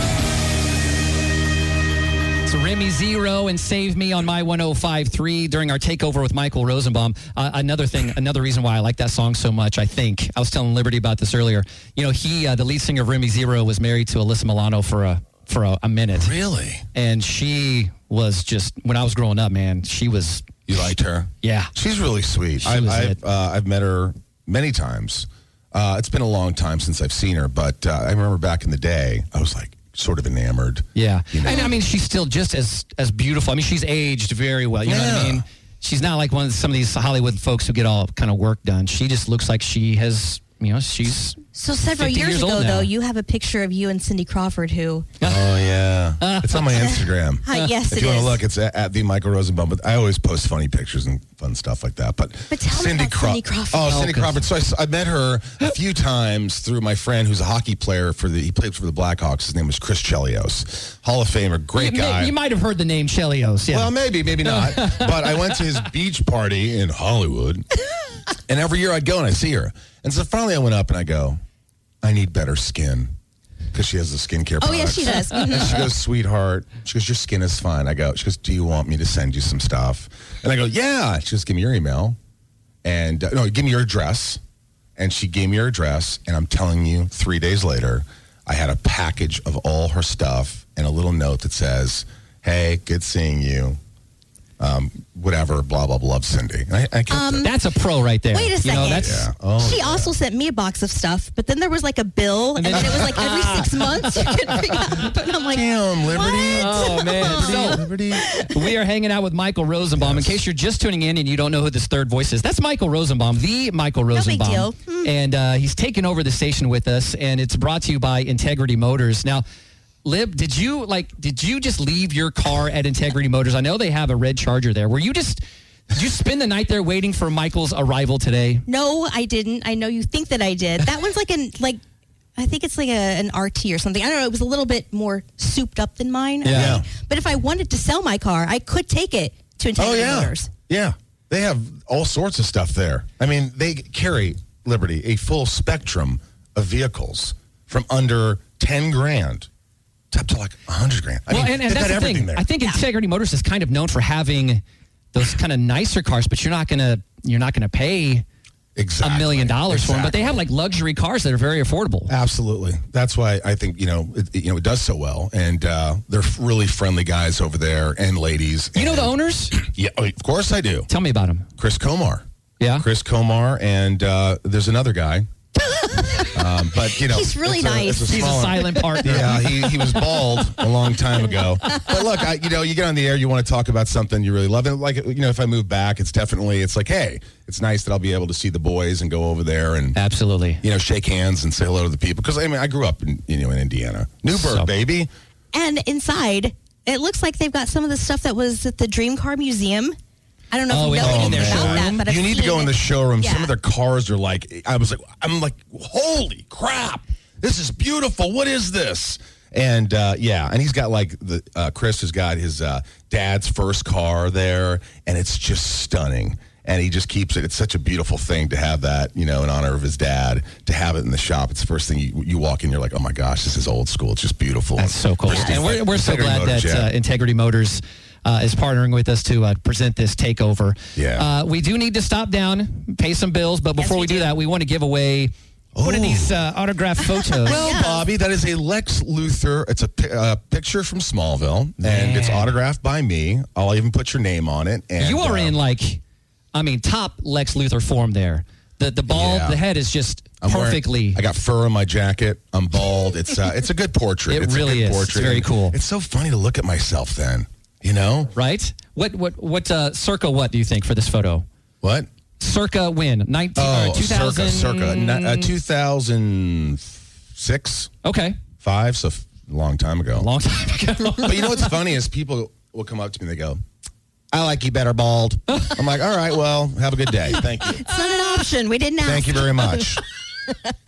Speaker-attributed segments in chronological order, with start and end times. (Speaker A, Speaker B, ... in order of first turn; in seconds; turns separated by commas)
Speaker A: 2.4-16.3, Speaker B: 16.1-16.9, Speaker A: 16.9-20.5, Speaker B: 20.7-31.8, Speaker A: 21.4-21.7, Speaker A: 22.6-23.2, Speaker A: 30.9-41.4, Speaker C: 31.4-31.7, Speaker B: 34.8-35.4, Speaker C: 41.5-45.1, Speaker A: 41.9-42.9, Speaker A: 45.2-45.5, Speaker B: 45.2-62.3, Speaker A: 46.2-46.9, Speaker C: 47.4-48.4, Speaker C: 52.5-54.0, Speaker A: 53.8-54.4, Speaker A: 61.7-65.8, Speaker B: 63.7-67.7, Speaker B: 68.3-71.4, Speaker B: 72.0-73.1, Speaker B: 73.7-82.2, Speaker C: 74.6-75.9, Speaker B: 82.8-84.4, Speaker B: 85.0-93.8, Speaker B: 94.6-97.5, Speaker C: 97.1-97.5, Speaker A: 97.4-99.2, Speaker C: 98.3-108.7, Speaker B: 98.9-100.1, Speaker A: 102.6-105.2, Speaker B: 102.7-103.4, Speaker B: 105.5-108.2, Speaker A: 106.5-119.4, Speaker B: 110.0-110.4, Speaker C: 114.1-115.1, Speaker A: 120.0-128.6, Speaker C: 128.7-131.8, Speaker C: 132.3-140.5, Speaker A: 136.4-136.8, Speaker B: 136.5-136.9, Speaker B: 139.8-149.5, Speaker B: 150.1-152.5, Speaker A: 151.3-158.2, Speaker B: 158.8-160.4, Speaker A: 159.0-162.1, Speaker B: 162.1-170.9, Speaker A: 168.7-169.6, Speaker A: 170.9-171.5, Speaker B: 171.6-172.2, Speaker A: 172.6-172.9, Speaker B: 172.8-175.3, Speaker C: 175.7-179.2, Speaker B: 176.3-190.0, Speaker A: 178.1-179.8, Speaker A: 189.9-190.6, Speaker B: 190.6-195.1, Speaker A: 194.3-194.7, Speaker C: 195.5-199.9, Speaker C: 200.5-203.5, Speaker A: 200.7-202.0, Speaker B: 201.0-226.9, Speaker A: 224.8-237.9, Speaker C: 225.3-225.7, Speaker B: 230.9-231.3, Speaker C: 233.8-234.3, Speaker B: 235.7-236.4, Speaker C: 237.2-238.0, Speaker B: 237.4-245.6, Speaker A: 241.8-242.5, Speaker A: 245.0-246.0, Speaker A: 246.5-251.2, Speaker B: 249.1-249.6, Speaker B: 250.4-258.3, Speaker A: 254.3-255.8, Speaker A: 258.3-261.4, Speaker B: 261.8-262.1, Speaker A: 262.4-265.5, Speaker B: 263.6-267.9, Speaker A: 268.0-268.4, Speaker B: 268.6-270.3, Speaker A: 270.2-271.7, Speaker B: 271.2-273.6, Speaker B: 274.3-277.9, Speaker A: 275.5-275.8, Speaker C: 277.8-279.9, Speaker B: 279.0-280.0